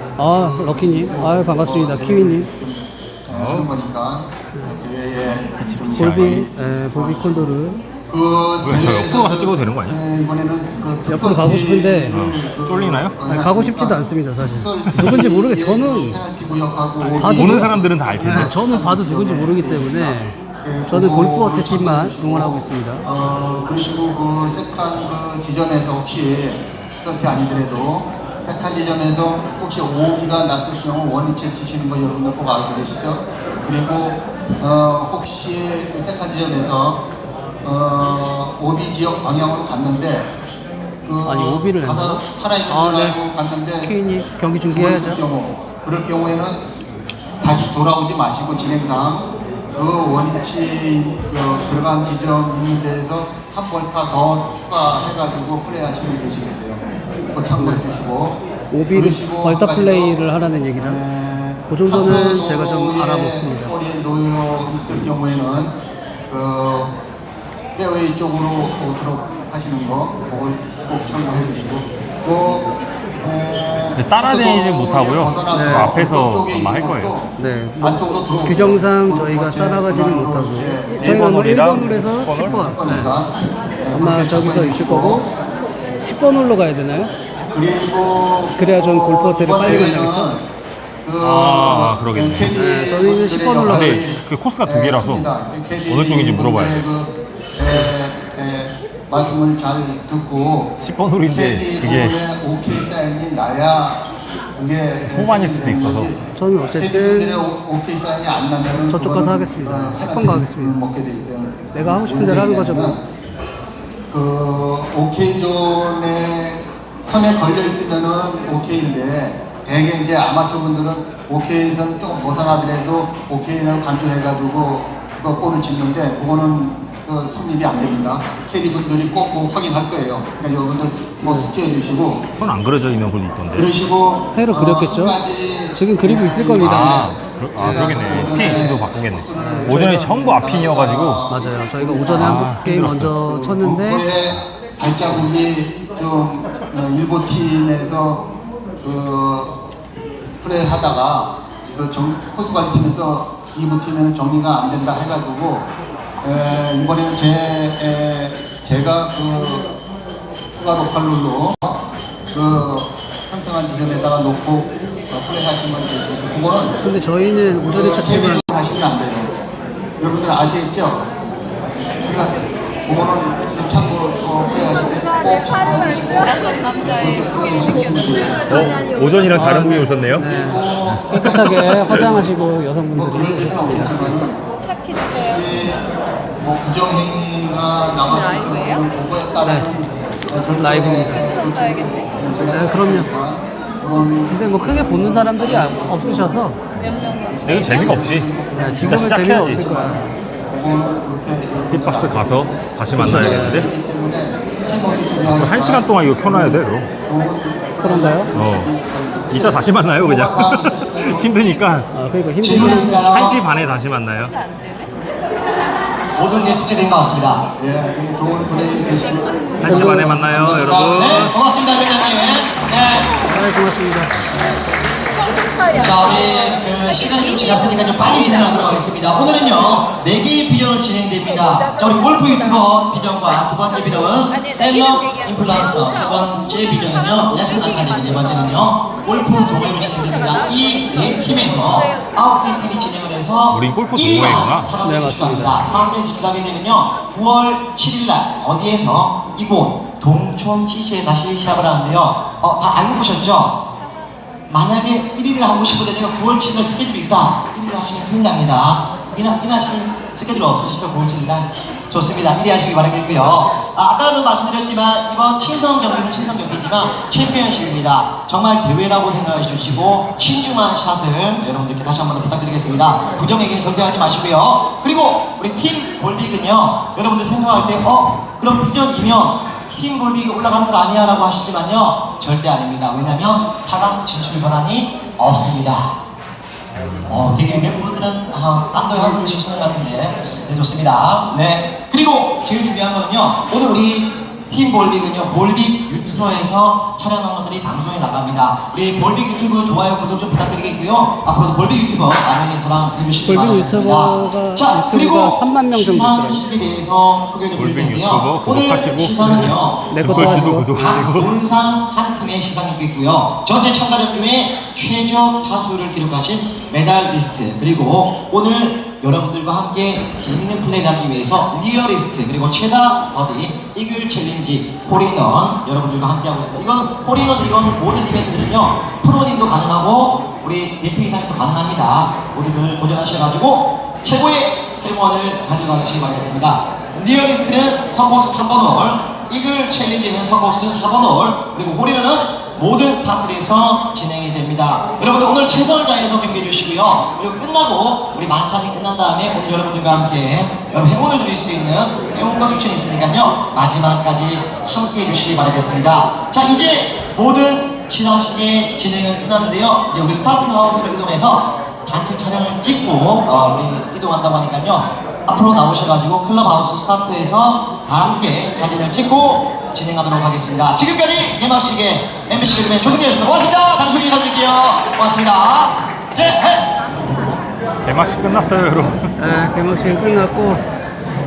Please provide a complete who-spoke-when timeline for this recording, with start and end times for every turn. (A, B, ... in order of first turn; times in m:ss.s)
0:00.2-0:02.5 A
0:00.3-0:07.5 B
0:03.3-0:03.7 C
0:05.6-0:06.4 C
0:05.9-0:07.8 A
0:08.1-0:37.0 B
0:08.6-0:10.0 C
0:11.1-0:12.2 A
0:12.1-0:13.2 C
0:13.3-0:16.2 A
0:17.0-0:18.6 C
0:17.1-0:20.4 A
0:20.9-0:23.0 A
0:37.6-0:40.3 B
0:41.0-0:44.0 B
0:41.2-0:43.2 A
0:43.8-0:45.2 A
0:44.7-0:46.6 B
0:47.4-0:58.4 B
0:57.5-0:57.8 A
0:58.7-1:01.0 A
0:59.0-1:00.2 B
1:00.8-1:05.8 B
1:01.7-1:03.8 A
1:06.3-1:07.0 B
1:07.8-1:12.7 B
1:13.2-1:25.2 B
1:14.0-1:17.2 C
1:15.5-1:15.9 A
1:17.4-1:23.1 A
1:21.0-1:23.1 C
1:23.9-1:25.3 A
1:26.0-1:27.1 A
1:27.5-1:30.4 B
1:28.6-1:30.4 A
1:31.0-1:40.8 B
1:31.2-1:31.6 A
1:31.2-1:32.6 C
1:32.5-1:34.0 A
1:33.6-1:35.3 C
1:35.9-1:36.8 C
1:40.8-1:42.2 C
1:41.3-1:53.0 B
1:45.0-1:46.1 C
1:46.3-1:47.4 A
1:48.8-1:50.9 A
1:51.7-1:53.0 A
1:54.1-2:12.3 B
2:11.2-2:11.5 A
2:12.3-2:13.7 C
2:13.6-2:22.5 B
2:14.3-2:15.2 A
2:15.7-2:20.1 A
2:16.6-2:21.3 C
2:21.3-2:24.1 A
2:22.1-2:23.2 C
2:23.2-2:28.3 B
2:28.8-2:29.6 B
2:30.4-2:35.7 B
2:36.2-2:39.7 B
2:40.5-2:46.8 B
2:46.8-2:48.4 A
2:47.6-2:49.3 B
2:50.0-2:51.1 B
2:52.0-2:58.8 B
2:58.5-3:00.2 C
2:59.3-3:04.1 A
3:00.2-3:02.4 B
3:02.9-3:04.4 B
3:05.1-3:31.7 B
3:09.4-3:09.7 A
3:10.6-3:11.4 A
3:12.5-3:13.1 A
3:14.3-3:16.6 A
3:17.4-3:19.7 C
3:18.5-3:20.1 A
3:21.7-3:23.7 C
3:23.0-3:23.6 A
3:25.2-3:26.9 C
3:27.8-3:28.3 A
3:28.3-3:28.8 C
3:29.3-3:31.9 C
3:31.9-3:33.3 A
3:32.4-3:33.4 D
3:32.7-3:34.3 C
3:36.2-3:37.4 D
3:37.6-3:41.3 B
3:39.6-3:41.4 C
3:40.9-3:43.2 D
3:43.3-3:44.1 A
3:45.7-4:13.6 D
4:03.5-4:04.7 C
4:04.8-4:05.6 A
4:14.5-4:45.9 D
4:47.1-6:16.7 D
5:03.2-5:06.4 A
5:07.6-5:11.4 C
5:09.2-5:11.2 A
6:17.8-6:19.0 C
6:19.2-6:20.6 A